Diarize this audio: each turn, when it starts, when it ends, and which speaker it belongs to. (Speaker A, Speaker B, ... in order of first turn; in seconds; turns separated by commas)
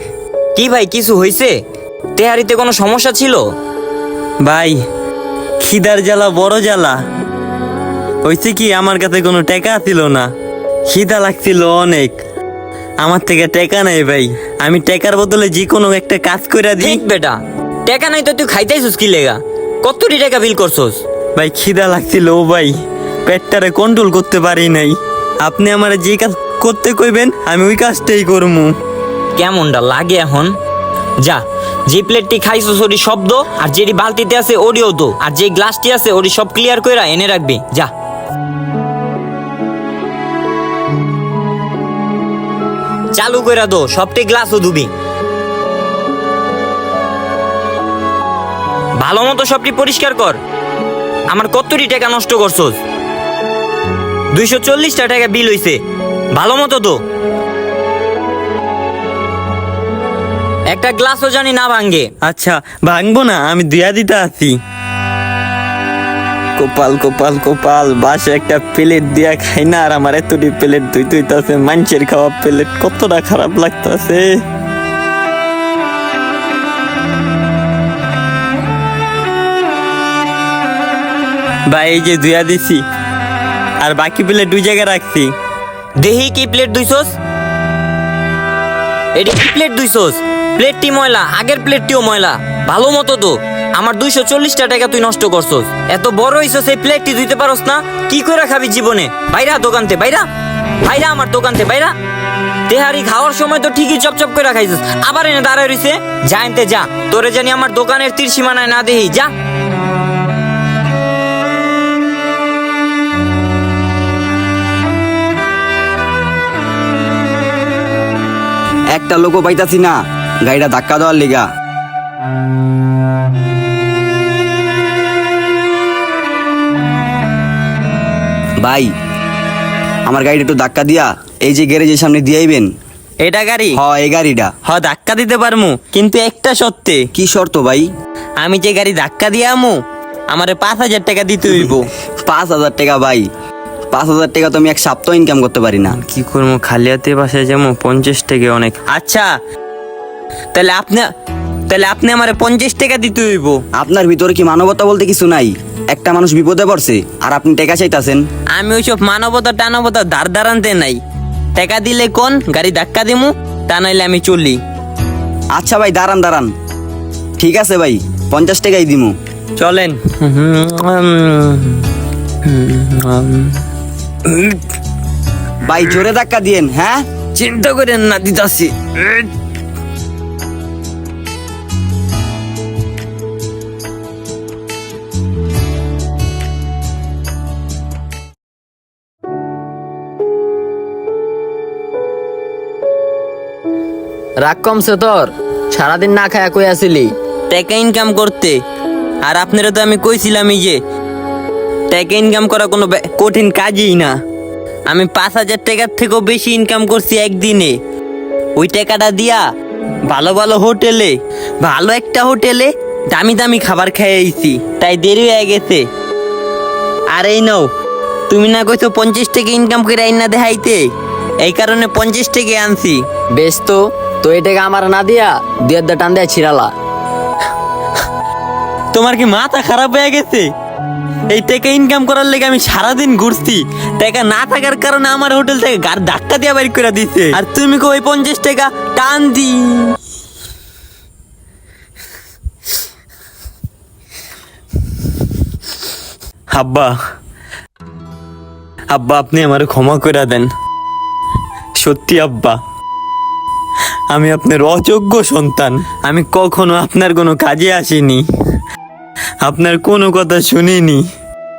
Speaker A: 0.6-1.6, Speaker A: 2.2-3.5, Speaker B: 4.4-4.8, Speaker B: 5.6-7.0, Speaker B: 8.2-10.3, Speaker B: 10.9-12.2, Speaker B: 13.0-17.0, Speaker A: 16.8-21.0, Speaker B: 21.4-28.8, Speaker A: 29.4-30.6, Speaker A: 31.2-37.9, Speaker A: 43.1-44.9, Speaker A: 49.0-50.4, Speaker A: 51.3-52.8, Speaker A: 54.3-55.8, Speaker A: 56.3-57.0, Speaker A: 60.7-62.1, Speaker B: 62.2-64.6, Speaker B: 66.6-74.3, Speaker B: 81.7-82.8, Speaker B: 83.8-85.3, Speaker A: 86.0-87.2, Speaker A: 89.2-100.3, Speaker A: 100.8-102.0, Speaker A: 102.7-109.3, Speaker C: 118.9-121.5, Speaker C: 128.6-128.9, Speaker C: 130.1-132.7, Speaker B: 133.2-133.8, Speaker C: 133.7-134.5, Speaker B: 134.7-137.1, Speaker C: 137.2-137.9, Speaker B: 138.4-139.8, Speaker B: 140.3-141.9, Speaker C: 141.6-143.3, Speaker C: 143.9-146.0, Speaker B: 145.9-149.3, Speaker B: 150.5-151.1, Speaker B: 151.7-153.6, Speaker C: 153.8-158.2, Speaker B: 158.6-161.0, Speaker B: 161.6-164.6, Speaker C: 165.5-166.5, Speaker C: 167.4-169.1, Speaker B: 169.6-171.9, Speaker B: 172.4-173.6, Speaker B: 174.3-174.6, Speaker C: 175.7-177.0, Speaker B: 177.3-179.3, Speaker D: 194.4-197.1, Speaker B: 197.5-198.6, Speaker B: 199.2-200.8, Speaker B: 201.9-204.1, Speaker B: 204.9-207.7, Speaker B: 208.6-209.4, Speaker B: 210.1-215.8, Speaker B: 217.1-217.7, Speaker B: 218.3-220.8, Speaker B: 221.4-223.0, Speaker D: 223.4-226.7, Speaker B: 228.9-230.5, Speaker B: 231.3-240.0, Speaker B: 246.5-246.9, Speaker B: 248.9-250.5, Speaker B: 251.8-252.6, Speaker B: 254.1-258.2, Speaker B: 259.4-261.0